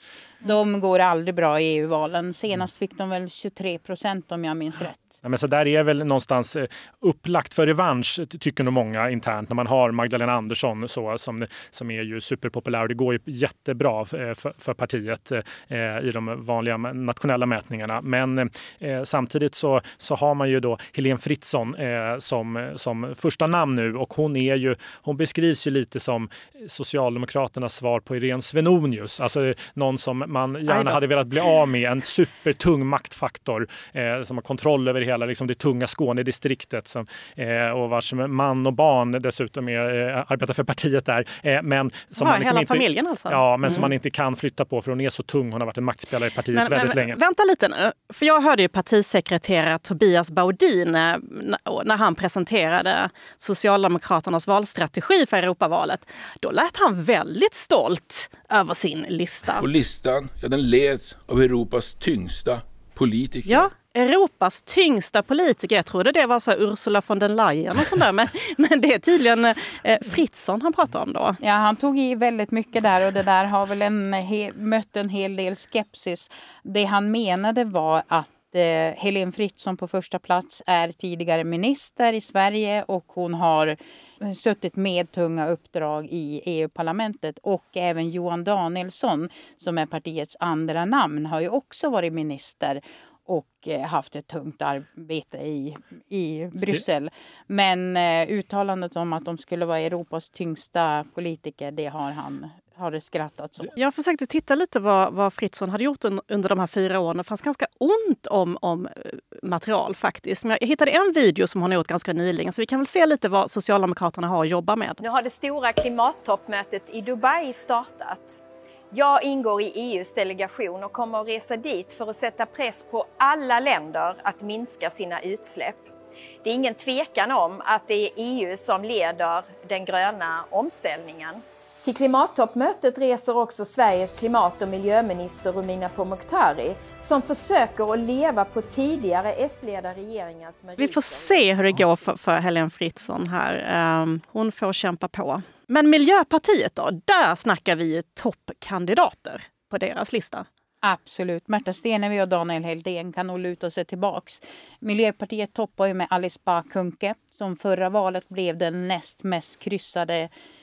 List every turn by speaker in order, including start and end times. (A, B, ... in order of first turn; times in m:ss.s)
0:00.4-0:05.1 A
0:05.2-0:47.2 B
0:30.7-0:31.0 C
0:42.2-0:43.9 C
0:46.5-0:59.7 C
0:59.5-1:03.7 D
1:03.4-1:11.4 C
1:11.4-1:43.7 A
1:43.8-1:55.0 C
1:55.0-2:05.9 E
2:06.4-2:21.8 E
2:20.8-2:30.4 C
2:30.8-2:40.3 A